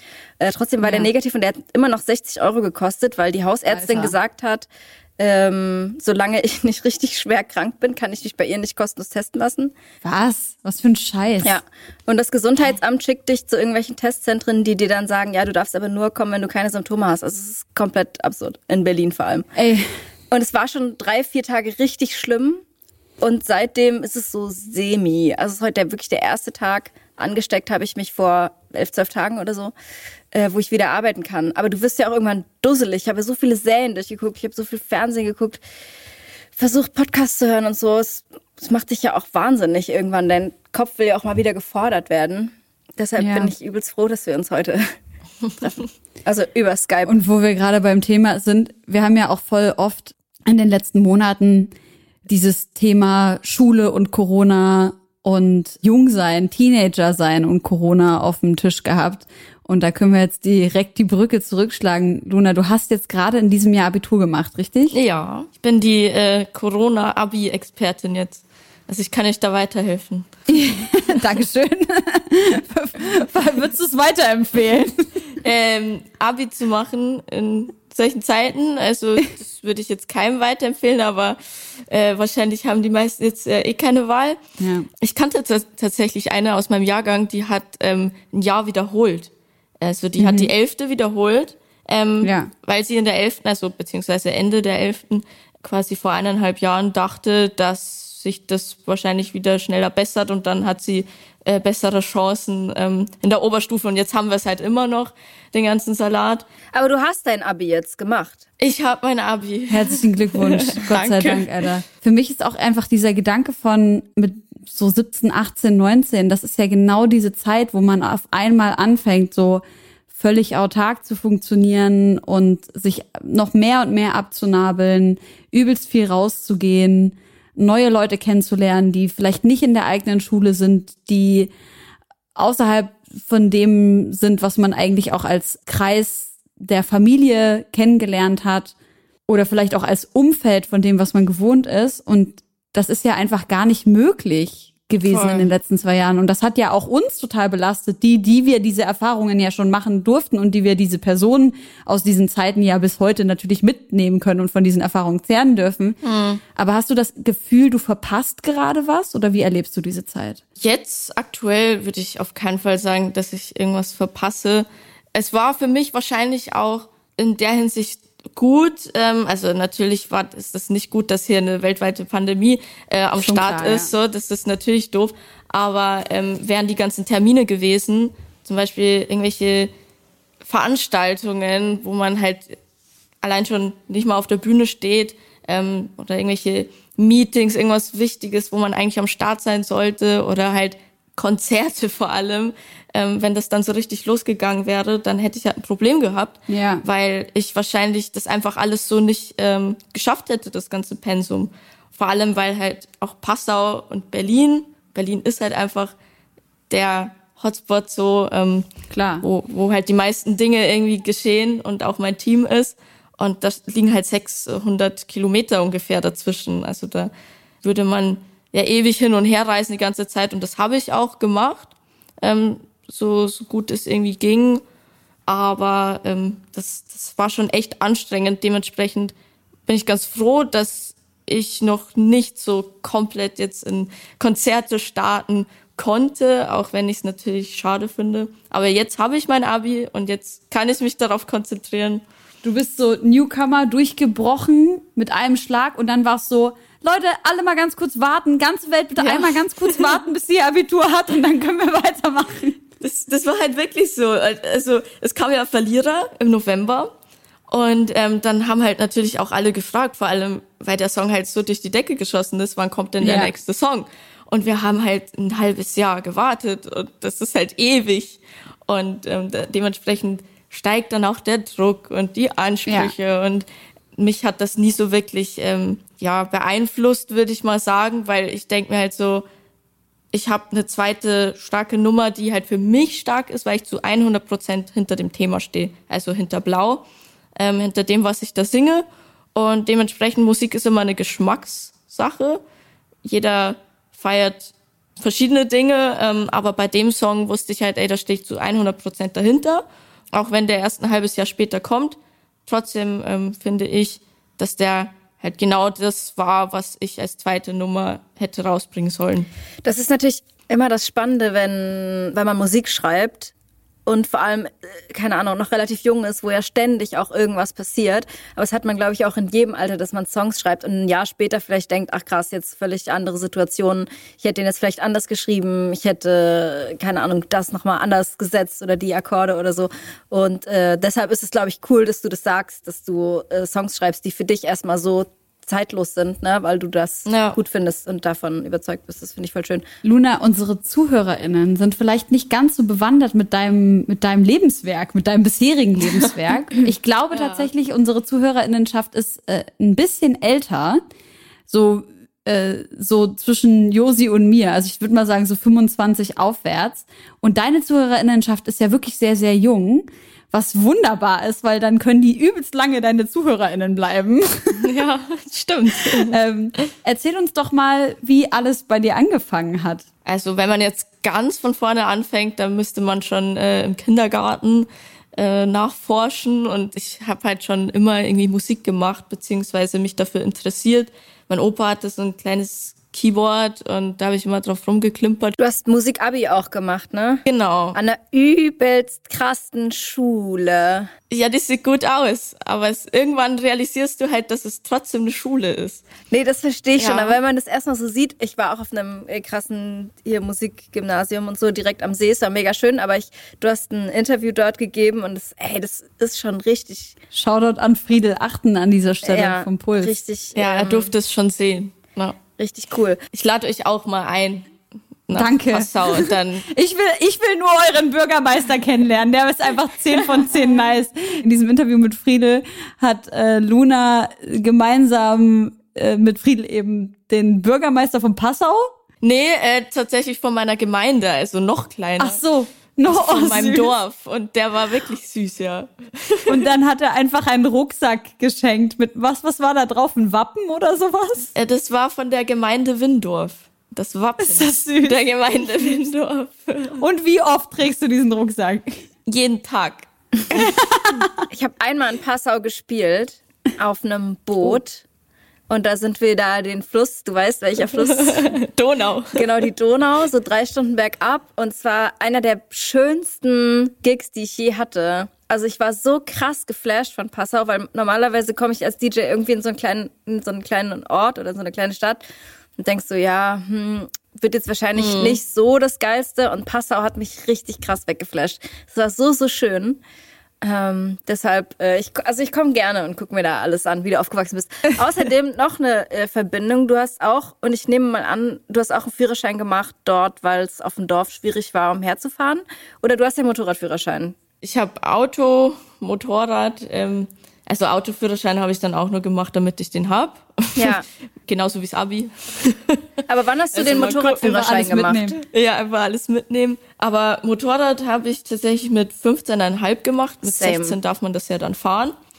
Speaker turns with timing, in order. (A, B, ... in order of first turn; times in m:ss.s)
0:00.4-0:09.7 A
0:00.8-0:01.1 B
0:03.7-0:04.1 B
0:10.0-0:11.6 B
0:11.4-0:19.5 A
0:19.6-0:19.9 B
0:20.3-0:22.6 A
0:23.2-0:29.7 A
0:30.3-0:35.6 A
0:36.6-0:44.9 A
0:43.2-0:43.5 B
0:45.6-0:47.1 A
0:47.1-0:51.7 B
0:52.3-1:05.0 B
1:04.9-1:10.3 C
1:10.5-1:15.1 B
1:15.4-1:24.4 C
1:24.6-1:24.9 B
1:25.0-1:46.4 C
1:30.2-1:30.5 B
1:32.2-1:32.5 B
1:46.7-1:48.4 A
1:48.6-1:51.6 C
1:49.7-2:11.5 B
2:12.4-2:18.7 B
2:19.3-2:36.0 B
2:25.0-2:25.5 C
2:36.0-2:36.4 C
2:36.5-2:40.4 B
2:40.6-2:59.7 C
2:53.2-2:53.9 B
3:00.4-3:02.5 C
3:03.2-3:25.9 C
3:16.5-3:16.8 B
3:26.7-3:28.6 C
3:28.9-3:29.2 B
3:29.2-3:37.1 C
3:37.6-3:44.6 C
3:45.3-3:49.1 C
3:49.7-4:02.0 C
4:02.4-4:12.6 B
4:09.0-4:10.0 C
4:12.8-4:16.9 C
4:17.5-4:33.4 C
4:23.0-4:23.3 B
4:32.6-4:32.9 B
4:34.0-4:39.2 C
4:40.1-4:46.8 C
4:47.4-4:52.4 C
4:53.0-5:09.3 C
5:09.6-5:13.3 A
5:13.8-5:39.6 A
5:37.1-5:37.4 C
5:39.8-5:50.8 B
5:47.1-5:47.5 C
5:51.5-6:04.6 B
6:04.6-6:06.2 C
6:06.1-6:09.8 B
6:10.0-6:25.3 C
6:25.4-6:30.9 A
6:27.2-6:27.8 C
6:31.1-6:35.8 C
6:36.1-6:47.0 A
6:36.8-6:37.2 C
6:47.1-6:50.0 B
6:49.0-6:50.9 A
6:50.4-6:52.4 C
6:52.4-6:53.0 A
6:53.1-6:54.5 C
6:55.1-6:56.4 C
6:55.1-7:08.7 B
7:09.0-7:12.2 C
7:12.0-7:13.7 B
7:12.9-7:16.4 C
7:16.3-7:21.3 B
7:21.3-7:26.8 C
7:24.2-7:25.0 B
7:26.8-7:28.8 B
7:29.1-7:31.0 C
7:30.3-7:31.1 B
7:31.3-7:34.8 A
7:35.5-7:38.3 A
7:37.7-7:39.3 C
7:39.1-7:52.0 A
7:52.6-7:59.8 A
7:54.8-7:55.2 C
8:00.4-8:14.2 A
8:14.4-8:22.8 C
8:20.6-8:20.8 A
8:23.1-8:25.1 A
8:23.5-8:24.2 C
8:24.2-8:25.2 B
8:25.2-8:31.9 C
8:30.2-8:30.8 A